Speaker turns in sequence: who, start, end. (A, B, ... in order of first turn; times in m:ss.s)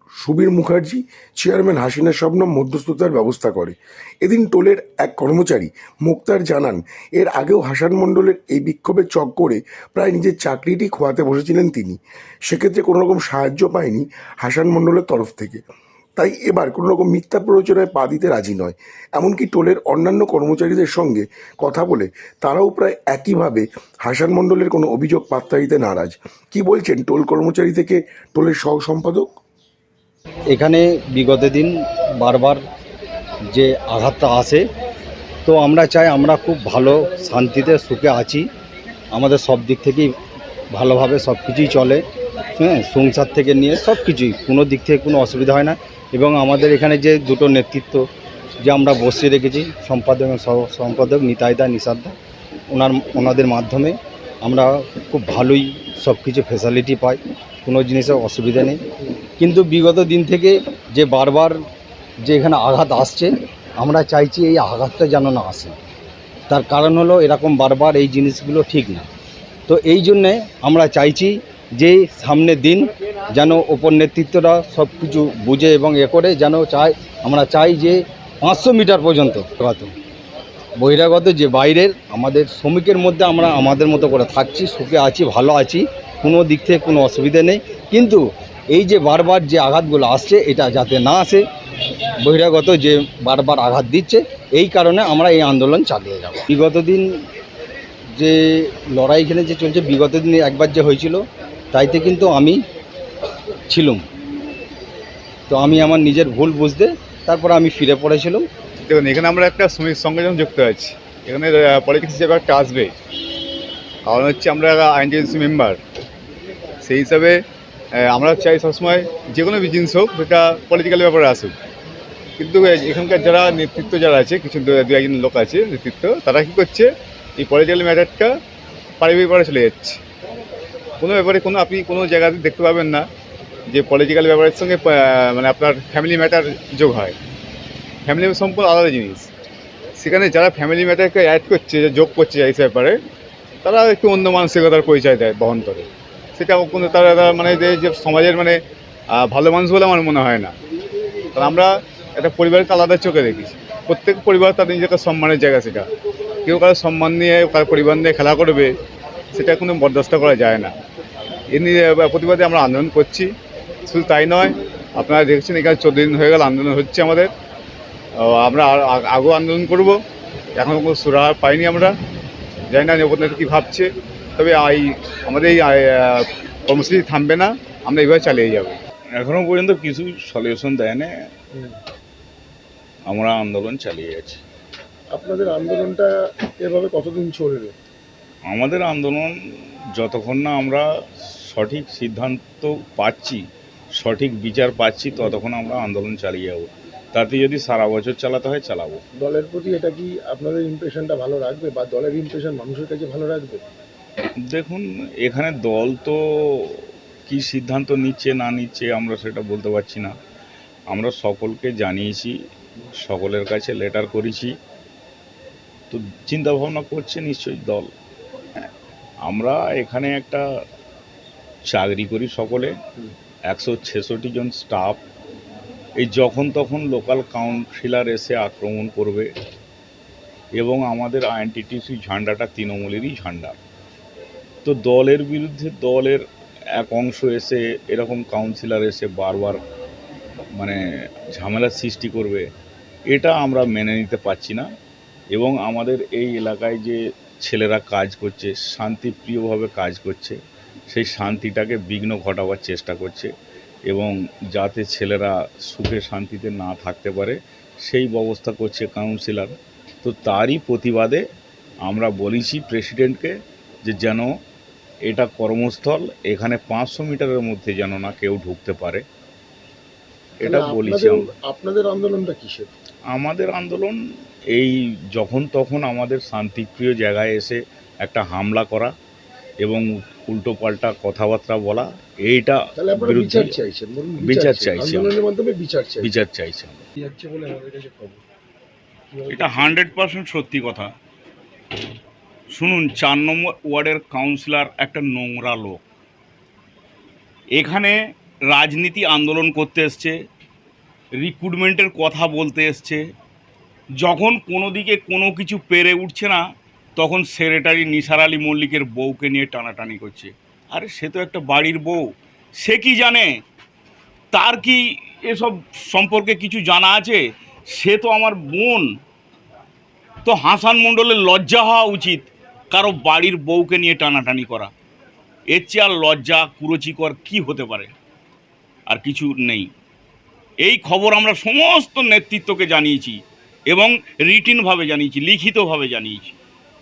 0:00.2-0:15.6 A
0:16.2-0:29.3 A
0:30.5-0:32.6 B
0:33.5-0:34.7 B
0:35.4-0:38.5 B
0:39.1-0:40.1 B
0:40.7-0:42.0 B
0:42.6-0:48.0 B
0:48.6-0:52.2 B
0:52.7-0:58.8 B
0:59.4-1:01.6 B
1:02.3-1:05.8 B
1:06.5-1:09.1 B
1:09.7-1:19.9 B
1:20.8-1:31.4 B
1:32.2-1:37.2 B
1:38.2-1:42.6 B
1:43.7-1:44.0 B
1:45.5-1:48.5 B
1:48.8-1:53.0 C
1:54.1-1:55.8 C
1:56.8-1:57.4 C
1:58.0-2:01.6 C
2:02.4-2:08.4 C
2:09.0-2:10.0 C
2:11.0-2:13.1 C
2:13.7-2:17.2 C
2:18.1-2:19.3 C
2:20.0-2:23.0 C
2:23.6-2:28.6 C
2:29.1-2:30.6 C
2:31.4-2:35.9 C
2:36.4-2:38.8 C
2:39.3-2:40.7 C
2:41.5-2:43.3 C
2:43.9-2:47.3 C
2:48.2-2:50.0 C
2:50.6-2:52.0 C
2:52.7-2:58.8 C
2:59.2-3:01.1 D
3:03.1-3:04.4 D
3:05.1-3:07.8 E
3:08.5-3:09.3 D
3:10.0-3:10.9 D
3:11.4-3:13.4 D
3:14.0-3:19.0 D
3:19.2-3:23.6 E
3:24.5-3:30.1 D
3:30.9-3:32.3 D
3:33.0-3:34.5 D
3:35.9-3:37.9 D
3:39.3-3:40.4 D
3:41.7-3:42.8 D
3:43.5-3:45.0 D
3:46.0-3:49.3 D
3:50.6-3:53.6 D
3:54.6-3:56.2 D
3:56.8-3:59.6 D
4:01.4-4:02.4 D
4:03.1-4:04.7 D
4:05.3-4:10.4 D
4:10.9-4:13.3 D
4:13.9-4:21.2 D
4:21.9-4:23.3 D
4:23.9-4:24.3 D
4:25.1-4:29.0 D
4:30.4-4:31.3 D
4:30.4-4:32.7 E
4:33.1-4:34.0 D
4:34.5-4:38.9 D
4:39.6-4:43.6 D
4:42.8-4:46.1 E
4:44.2-4:45.2 D
4:46.0-4:46.8 D
4:47.0-4:48.2 E
4:49.1-4:50.0 E
4:49.3-4:50.9 D
4:52.5-4:55.8 D
4:57.6-4:58.0 D
4:58.5-5:00.2 D
5:01.2-5:03.0 D
5:04.0-5:06.4 D
5:07.0-5:12.0 D
5:12.6-5:13.3 D
5:14.3-5:17.2 D
5:17.7-5:18.9 D
5:20.2-5:24.7 D
5:25.5-5:28.0 D
5:28.9-5:29.7 D
5:30.6-5:36.4 D